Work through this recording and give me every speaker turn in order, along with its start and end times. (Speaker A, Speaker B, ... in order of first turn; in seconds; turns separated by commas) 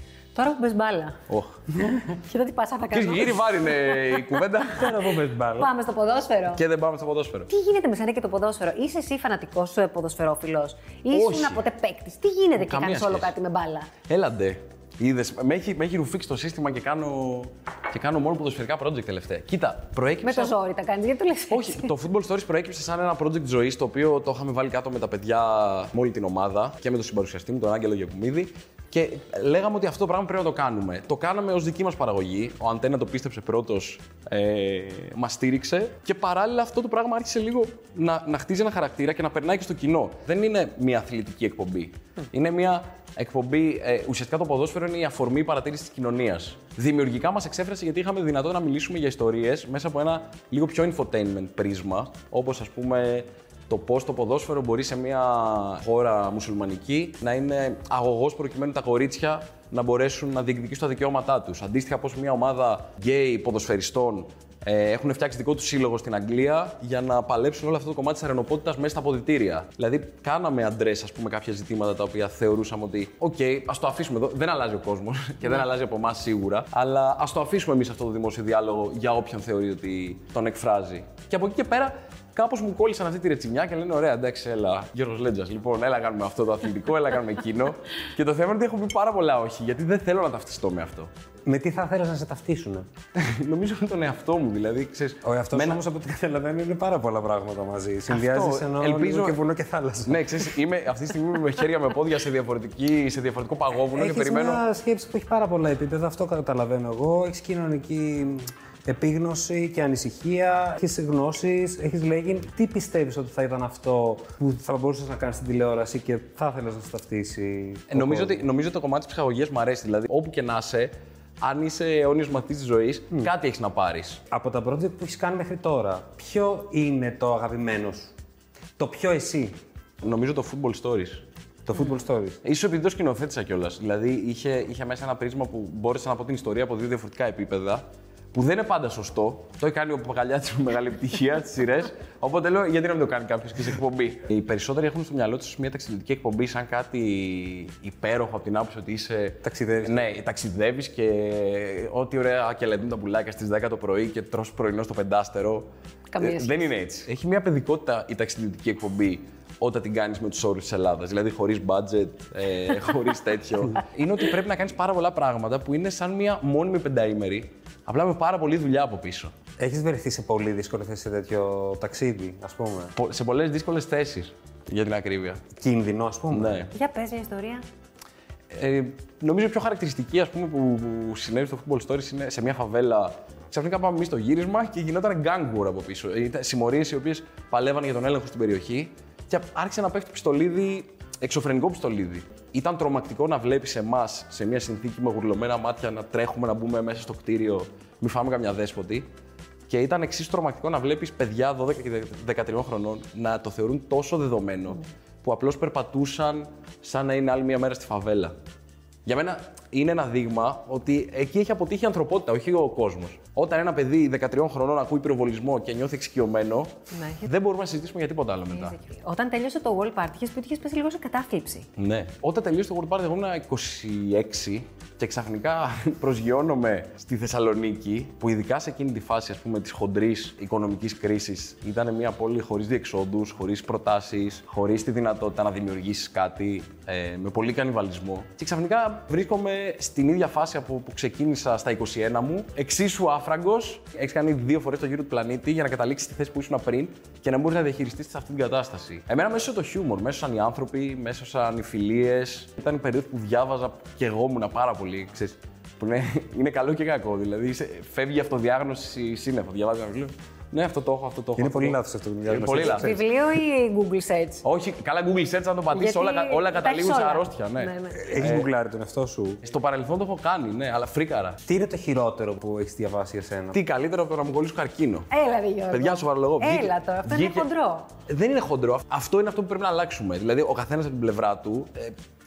Speaker A: 0.3-1.2, Speaker B: 1.3-1.6, Speaker A: 2.1-4.4, Speaker B: 2.9-5.0, Speaker C: 4.7-5.7, Speaker A: 5.5-6.6, Speaker B: 6.5-7.5, Speaker A: 7.5-13.9, Speaker B: 11.1-11.6, Speaker B: 12.6-13.3, Speaker B: 14.1-20.5, Speaker A: 20.2-21.9, Speaker B: 21.5-91.1, Speaker C: 91.5-92.8, Speaker B: 93.2-95.8, Speaker C: 95.2-100.5, Speaker B: 98.1-99.4, Speaker B: 100.0-104.6, Speaker C: 103.9-118.4, Speaker B: 117.9-124.2, Speaker C: 124.3-128.1, Speaker C: 128.8-129.5, Speaker B: 130.0-131.2, Speaker C: 131.7-132.4, Speaker B: 132.4-155.7, Speaker C: 149.4-150.0, Speaker A: 156.1-156.6, Speaker B: 156.2-169.3, Speaker C: 169.6-172.9, Speaker B: 172.9-175.4, Speaker C: 175.6-176.7, Speaker B: 176.3-176.7, Speaker A: 176.7-177.6, Speaker B: 178.5-199.1, Speaker B: 199.7-208.3, Speaker B: 209.1-218.8, Speaker A: 216.9-217.3, Speaker A: 218.5-221.7, Speaker B: 221.8-262.9, Speaker C: 261.4-263.0, Speaker A: 262.6-264.4, Speaker B: 264.4-268.5, Speaker A: 265.7-268.4, Speaker C: 267.9-269.4, Speaker B: 269.4-271.4, Speaker C: 271.4-273.6, Speaker B: 273.5-275.1, Speaker A: 275.1-277.9, Speaker B: 275.7-277.5, Speaker B: 278.1-281.9